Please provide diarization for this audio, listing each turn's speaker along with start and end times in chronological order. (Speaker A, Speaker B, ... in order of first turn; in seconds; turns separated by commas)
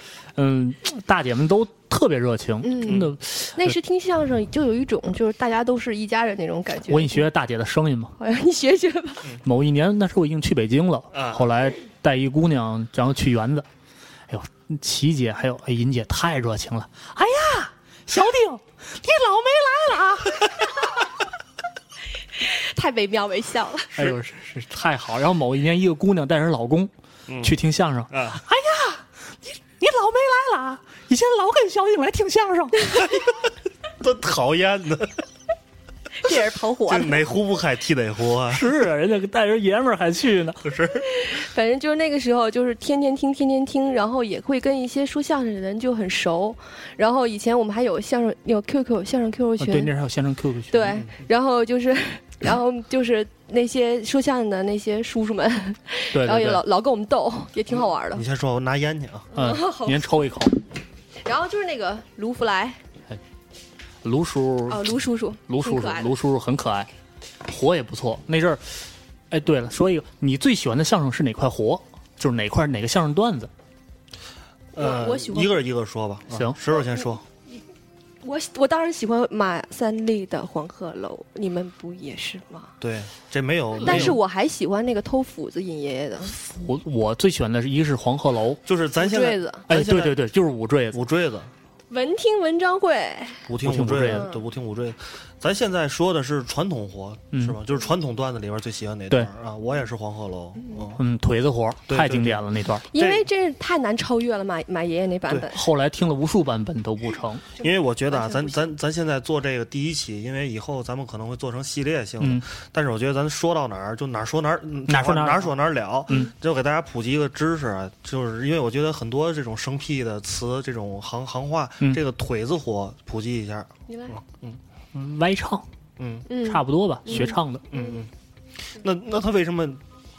Speaker A: 0.3-3.7, Speaker B: 2.6-7.2, Speaker A: 6.9-8.1, Speaker B: 8.2-9.2, Speaker A: 9.4-13.7, Speaker C: 11.1-11.4, Speaker A: 14.3-20.7, Speaker B: 22.4-24.0, Speaker A: 23.9-26.9, Speaker C: 27.3-27.6, Speaker A: 27.4-29.0, Speaker C: 28.1-28.4, Speaker A: 29.8-32.9, Speaker C: 34.0-35.2, Speaker B: 36.2-37.2, Speaker C: 36.9-38.7, Speaker A: 38.5-40.6, Speaker C: 40.6-41.0, Speaker B: 41.1-49.9, Speaker A: 49.6-51.0, Speaker B: 50.7-58.2, Speaker A: 56.1-56.6, Speaker C: 57.7-59.3, Speaker B: 59.3-60.1, Speaker A: 59.3-60.5, Speaker B: 61.2-62.8, Speaker A: 64.0-66.9, Speaker B: 64.7-66.1, Speaker A: 67.5-73.5, Speaker C: 74.7-77.2, Speaker B: 74.8-75.6, Speaker A: 76.3-76.6, Speaker B: 76.8-77.0, Speaker B: 78.2-82.7, Speaker C: 82.8-84.2, Speaker B: 83.8-86.3, Speaker A: 86.3-88.6, Speaker C: 88.7-90.2, Speaker B: 89.0-89.7, Speaker A: 89.7-91.0, Speaker C: 90.9-91.5, Speaker B: 91.9-93.4, Speaker C: 93.5-101.0, Speaker A: 93.6-94.3, Speaker B: 94.0-94.4, Speaker A: 97.3-97.6, Speaker A: 101.0-102.8, Speaker C: 101.9-102.4, Speaker B: 102.9-105.6, Speaker C: 102.9-103.2, Speaker A: 105.5-107.4, Speaker C: 107.6-124.6, Speaker B: 107.6-108.6, Speaker A: 112.2-112.4, Speaker A: 114.9-115.5, Speaker B: 123.9-124.2, Speaker A: 124.9-125.6, Speaker C: 126.0-126.2, Speaker B: 126.3-128.0, Speaker A: 126.4-127.6, Speaker C: 127.7-128.1, Speaker C: 128.8-129.8